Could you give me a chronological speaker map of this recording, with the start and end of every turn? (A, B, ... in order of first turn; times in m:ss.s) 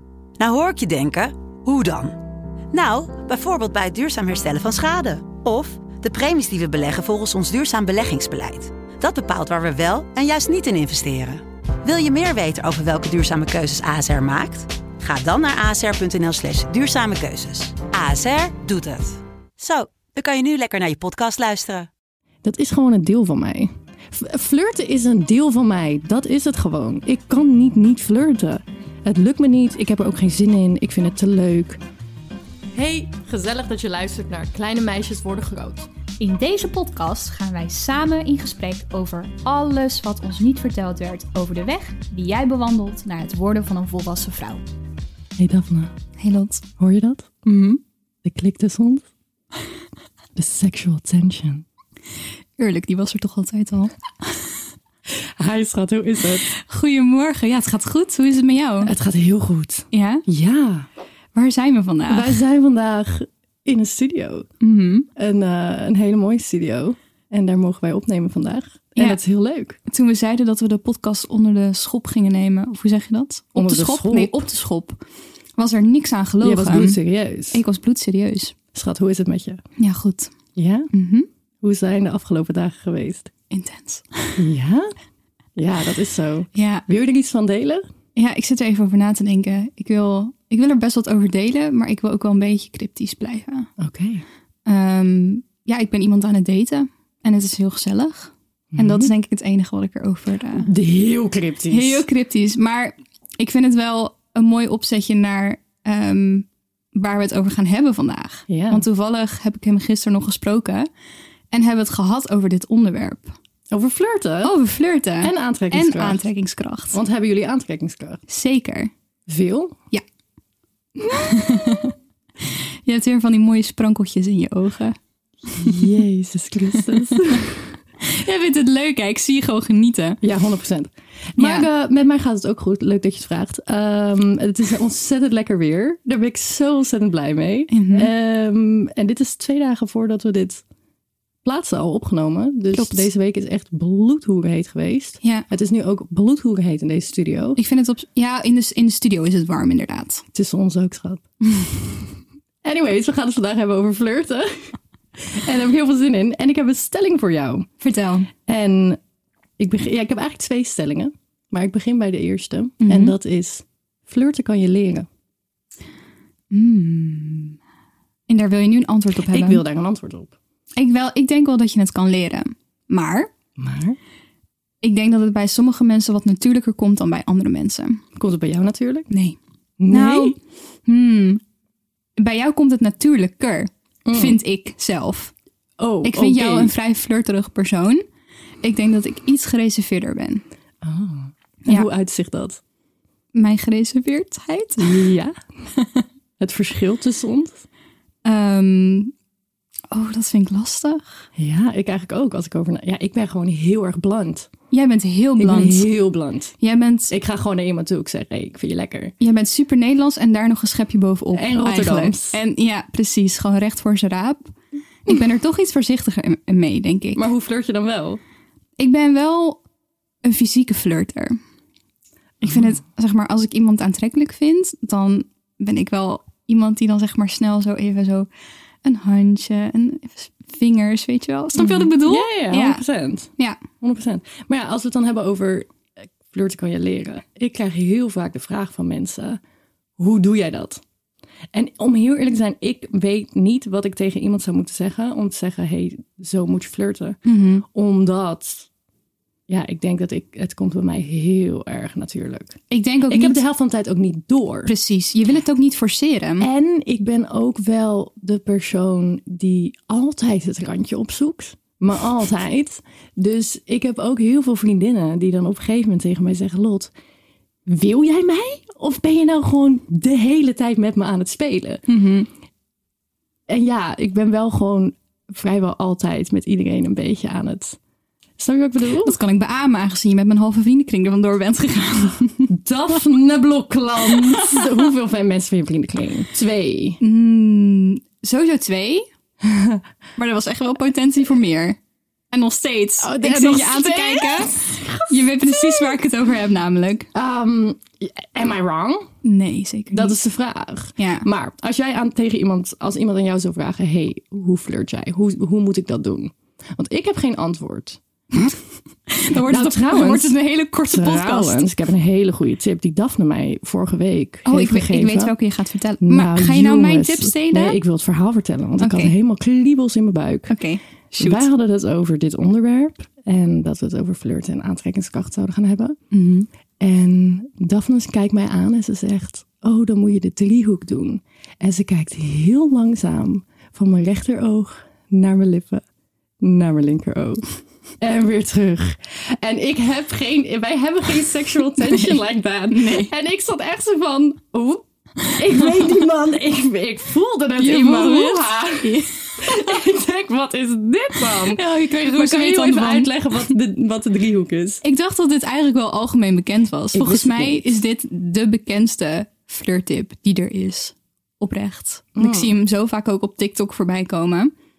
0:00.4-0:02.2 A
0:02.7-0:21.9 A
0:22.4-0:31.8 B
0:32.7-0:35.9 B
0:36.2-0:44.6 C
0:45.4-0:45.9 B
0:46.2-0:46.6 C
0:46.8-0:47.5 B
0:47.5-0:47.8 C
0:48.2-0:49.1 B
0:50.4-0:51.6 B
0:52.6-0:54.4 C
0:55.2-0:56.5 B
0:56.5-0:58.9 C
0:58.8-1:00.9 B
0:59.9-1:00.2 C
1:01.4-1:02.4 C
1:02.1-1:04.5 B
1:04.6-1:05.1 C
1:05.2-1:09.8 B
1:09.9-1:15.0 C
1:13.6-1:14.5 B
1:15.6-1:18.6 C
1:16.4-1:17.6 B
1:18.7-1:19.6 B
1:19.8-1:20.3 C
1:20.6-1:20.9 B
1:20.9-1:21.3 C
1:21.6-1:23.3 B
1:23.5-1:24.4 C
1:24.4-1:24.9 B
1:25.6-1:27.8 B
1:26.6-1:26.8 C
1:28.2-1:33.7 C
1:33.8-1:34.2 B
1:34.7-1:40.7 C
1:38.7-1:39.1 B
1:40.5-1:42.1 B
1:41.7-1:50.9 C
1:48.5-1:48.9 B
1:51.5-1:53.3 C
1:53.7-1:54.6 B
1:54.4-1:57.0 C
1:55.2-1:56.2 B
1:56.9-1:58.2 B
1:58.3-1:58.9 C
1:59.3-1:59.8 B
2:01.1-2:05.0 C
2:01.1-2:01.8 B
2:05.5-2:06.0 C
2:05.6-2:07.6 B
2:06.7-2:07.4 C
2:08.0-2:10.2 C
2:10.2-2:20.6 B
2:11.4-2:11.7 C
2:17.7-2:18.1 C
2:21.4-2:27.6 B
2:22.7-2:23.1 C
2:27.6-2:30.2 C
2:30.3-2:31.2 B
2:32.6-2:37.7 B
2:37.8-2:38.3 C
2:38.5-2:39.0 B
2:39.6-2:45.1 B
2:42.8-2:43.2 C
2:46.5-2:47.6 C
2:48.3-2:49.6 C
2:49.3-2:50.4 B
2:50.8-2:53.3 C
2:53.6-2:54.0 B
2:54.8-2:58.0 C
2:58.2-2:59.1 B
2:59.1-2:59.4 C
2:59.8-3:00.4 B
2:59.9-3:01.4 C
3:02.2-3:05.3 C
3:04.1-3:04.4 B
3:05.8-3:06.7 B
3:06.0-3:08.0 C
3:08.6-3:10.4 C
3:10.8-3:12.6 B
3:13.3-3:15.1 C
3:14.8-3:15.3 B
3:15.7-3:16.0 C
3:16.4-3:17.6 B
3:18.2-3:19.1 C
3:19.9-3:21.2 C
3:21.4-3:24.5 B
3:24.7-3:25.9 C
3:25.4-3:26.6 B
3:26.6-3:27.1 C
3:27.1-3:29.1 B
3:29.2-3:34.5 C
3:31.3-3:32.4 B
3:35.1-3:37.3 C
3:37.2-3:38.2 B
3:38.8-3:39.6 C
3:40.2-3:41.4 C
3:42.4-3:48.3 C
3:48.8-3:52.8 C
3:51.6-3:55.7 B
3:53.4-3:53.6 C
3:56.2-3:59.4 B
4:00.0-4:00.8 B
4:01.5-4:08.7 B
4:07.2-4:07.6 C
4:09.5-4:14.7 B
4:12.7-4:13.4 C
4:14.6-4:16.5 C
4:16.4-4:26.9 B
4:27.7-4:31.8 B
4:31.9-4:32.3 C
4:33.5-4:37.8 B
4:38.4-4:39.2 B
4:39.0-4:42.5 C
4:42.5-4:47.0 B
4:44.1-4:44.7 C
4:47.0-4:49.0 C
4:49.4-4:49.8 B
4:50.2-4:51.8 C
4:52.3-4:57.1 C
4:53.0-4:56.0 B
4:57.1-4:59.1 B
4:59.2-5:00.2 C
4:59.9-5:08.0 B
5:01.0-5:01.3 C
5:08.3-5:11.7 C
5:09.3-5:15.4 B
5:14.4-5:17.8 C
5:16.0-5:20.6 B
5:18.8-5:19.1 C
5:20.5-5:21.5 C
5:21.1-5:26.0 B
5:26.1-5:26.5 C
5:26.8-5:35.8 B
5:36.4-5:37.5 B
5:38.0-5:54.8 B
5:41.9-5:42.2 C
5:42.7-5:43.1 C
5:45.3-5:45.9 C
5:47.6-5:49.8 C
5:51.2-5:53.4 C
5:54.8-6:04.5 C
5:56.9-5:57.7 B
6:02.2-6:02.6 B